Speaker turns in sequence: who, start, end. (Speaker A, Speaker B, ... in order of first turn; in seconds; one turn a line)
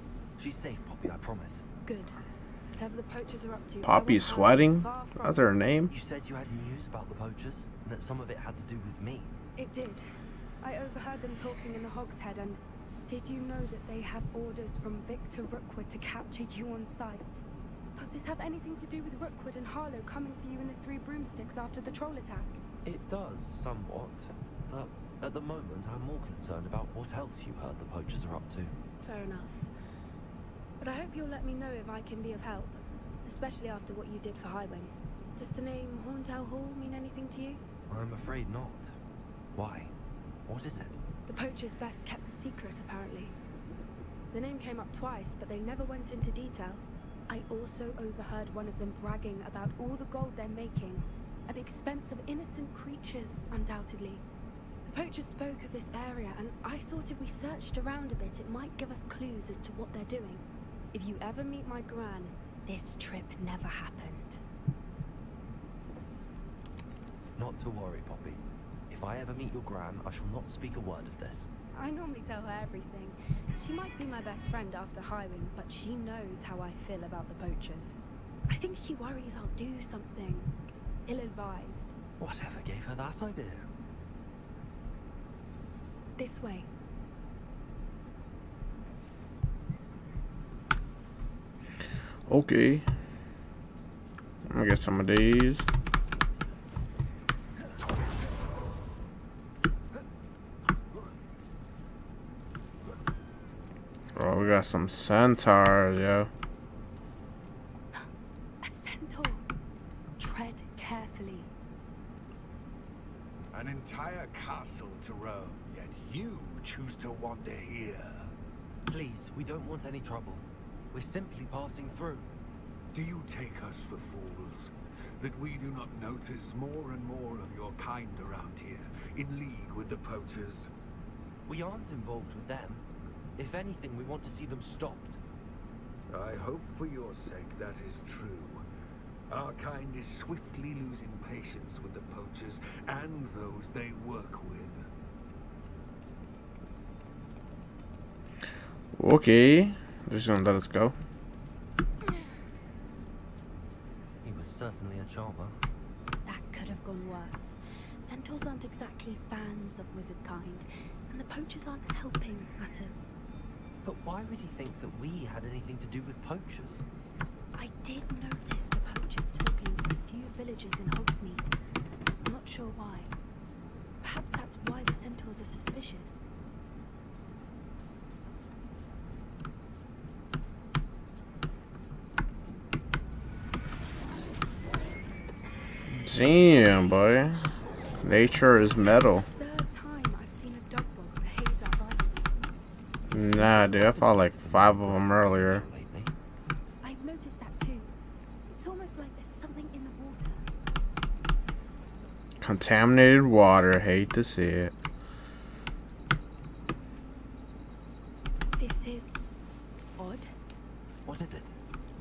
Speaker A: 0.4-1.6
Speaker B: 1.8-2.2
Speaker B: 2.7-5.7
Speaker C: 3.8-5.9
Speaker A: 5.9-9.3
Speaker B: 9.6-10.0
Speaker B: 10.6-17.4
Speaker B: 17.9-22.6
Speaker A: 22.8-28.7
Speaker B: 29.0-29.7
Speaker B: 30.8-37.6
Speaker A: 37.9-38.9
Speaker A: 39.5-39.9
Speaker A: 40.5-41.0
Speaker B: 41.3-43.4
Speaker B: 44.3-54.2
Speaker B: 54.9-64.4
Speaker A: 67.4-71.5
Speaker B: 71.7-81.9
Speaker A: 82.2-83.7
Speaker B: 86.2-86.7
Speaker C: 92.3-92.8
Speaker C: 94.5-95.7
Speaker C: 104.1-106.3
Speaker B: 108.6-109.5
Speaker B: 110.2-111.5
Speaker D: 113.5-118.3
Speaker A: 118.9-122.3
Speaker D: 122.9-130.7
Speaker A: 131.4-132.8
Speaker A: 133.3-135.2
Speaker D: 136.1-138.6
Speaker D: 139.3-144.9
Speaker C: 148.9-150.9
Speaker A: 154.2-155.6
Speaker B: 156.2-163.1
Speaker A: 163.8-166.8
Speaker B: 167.5-171.5
Speaker B: 172.2-173.1
Speaker B: 174.0-176.3
Speaker C: 185.9-187.5
Speaker C: 188.0-189.2
Speaker B: 189.1-192.5
Speaker A: 193.1-196.1
Speaker C: 193.1-195.6
Speaker B: 196.8-197.9
Speaker B: 198.5-200.4
Speaker C: 202.4-204.7
Speaker B: 208.6-210.3
Speaker A: 211.0-211.5